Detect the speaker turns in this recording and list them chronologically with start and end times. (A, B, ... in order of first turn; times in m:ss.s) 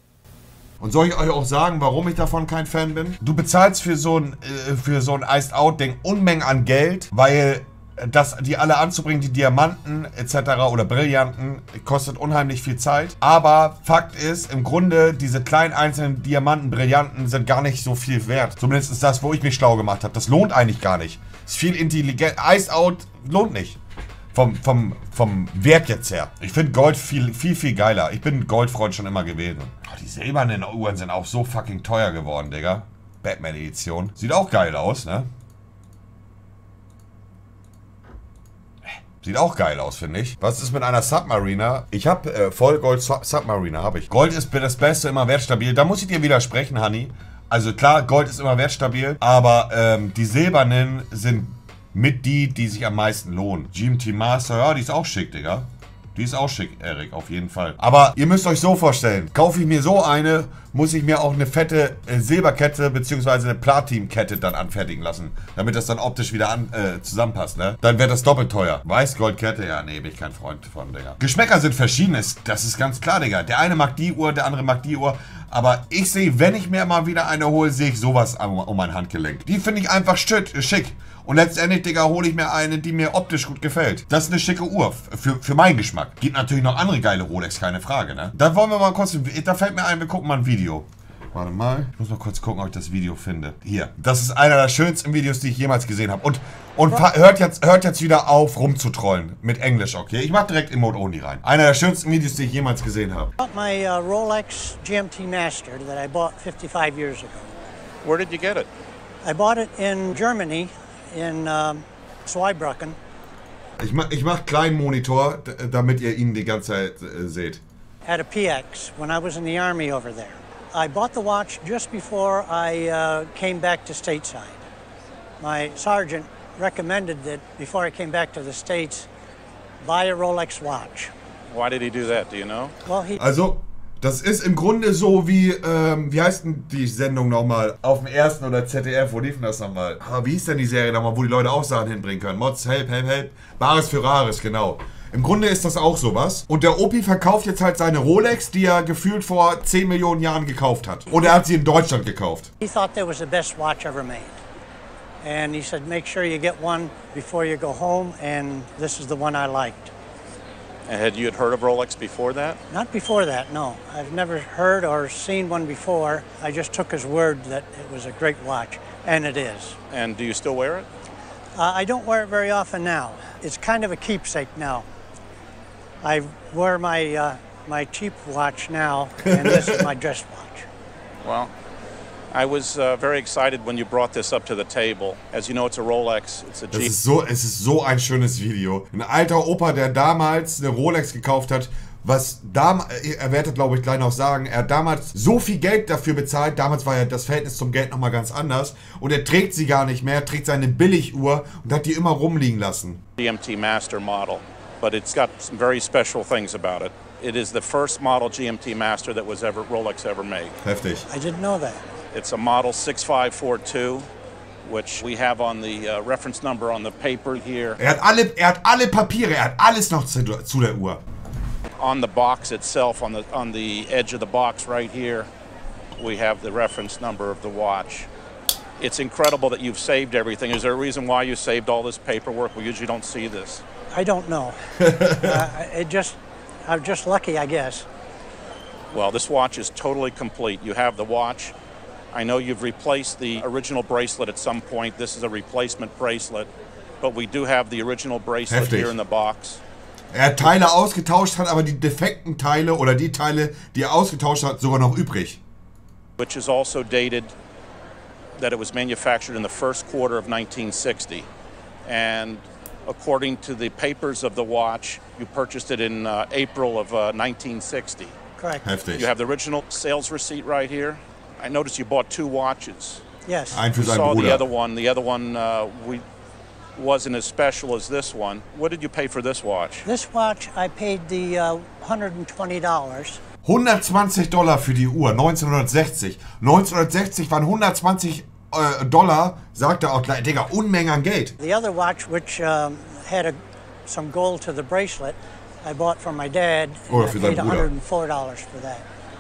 0:00.8-0:23.8 A
0:24.3-0:35.3 A
0:39.2-1:43.3 A
1:43.4-1:47.5 B
1:48.0-1:48.7 C
1:49.2-1:53.0 B
1:53.8-1:57.6 A
1:58.0-2:04.6 B
2:05.4-2:09.1 B
2:09.8-2:11.1 B
2:11.5-2:12.8 C
2:12.9-2:13.2 B
2:13.2-2:32.5 A
2:32.6-2:34.4 B
2:35.2-2:39.9 B
2:40.9-2:42.6 C
2:42.7-2:49.8 B
2:49.9-2:50.9 C
2:51.6-2:54.9 B
2:56.0-3:00.7 B
2:59.3-2:59.8 A
3:01.2-3:01.5 C
3:02.3-3:07.0 C
3:06.7-3:23.0 A
3:23.2-3:30.6 C
3:30.6-3:31.1 A
3:31.1-3:31.8 B
3:32.1-3:34.1 C
3:34.6-3:37.8 C
3:37.8-3:41.0 A
3:41.8-3:45.3 C
3:46.0-3:48.1 C
3:48.8-3:53.6 C
3:53.9-3:57.9 B
3:54.8-3:55.4 A
3:58.9-4:01.5 C
4:02.1-4:06.5 C
4:07.0-4:09.6 C
4:08.5-4:09.0 A
4:10.1-4:15.4 A
4:16.2-4:17.3 C
4:18.4-4:21.3 C
4:21.9-4:28.2 C
4:28.4-4:28.6 B
4:28.6-4:29.1 A
4:28.9-4:33.0 C
4:33.3-4:33.6 B
4:33.5-4:34.5 A
4:33.8-4:36.0 C
4:36.8-4:39.9 C
4:39.8-4:43.2 B
4:43.4-4:51.4 A
4:51.4-4:58.8 B
4:56.9-4:57.7 A